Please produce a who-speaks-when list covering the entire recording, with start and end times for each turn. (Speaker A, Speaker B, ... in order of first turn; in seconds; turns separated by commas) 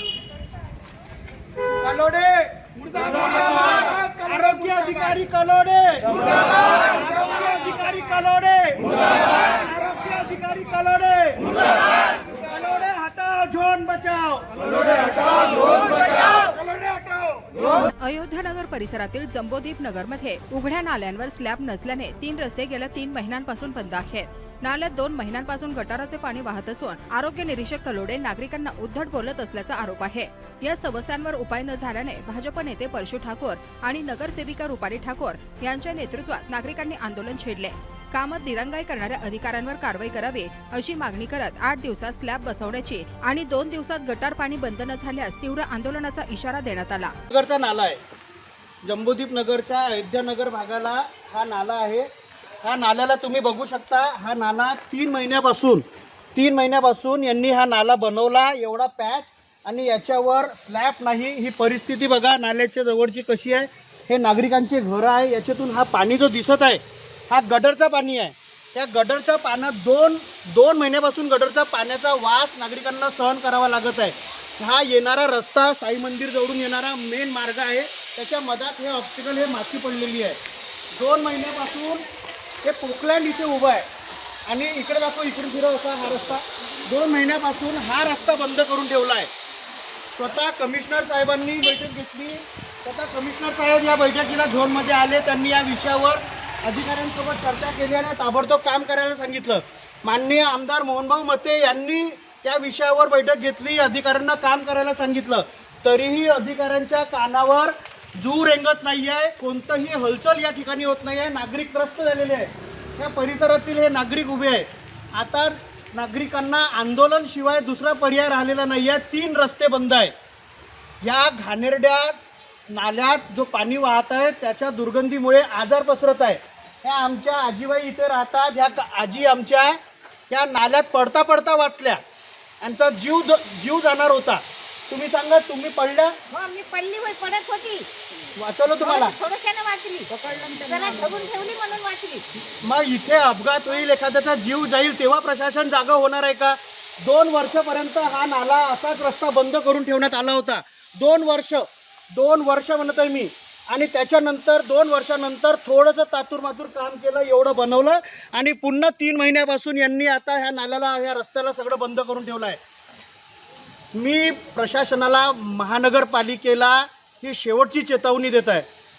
Speaker A: 1.8-16.8, Speaker B: 17.7-47.1, Speaker A: 47.3-48.0, Speaker A: 48.8-52.1, Speaker A: 52.6-55.8, Speaker A: 56.4-80.4, Speaker A: 80.9-82.0, Speaker A: 82.6-83.8, Speaker A: 84.5-89.3, Speaker A: 90.1-120.1, Speaker A: 121.0-122.2, Speaker A: 122.7-129.8, Speaker A: 130.3-132.0, Speaker A: 132.6-136.1, Speaker C: 136.3-137.9, Speaker A: 138.4-139.2, Speaker C: 138.8-142.2, Speaker A: 142.6-162.6, Speaker A: 163.9-168.7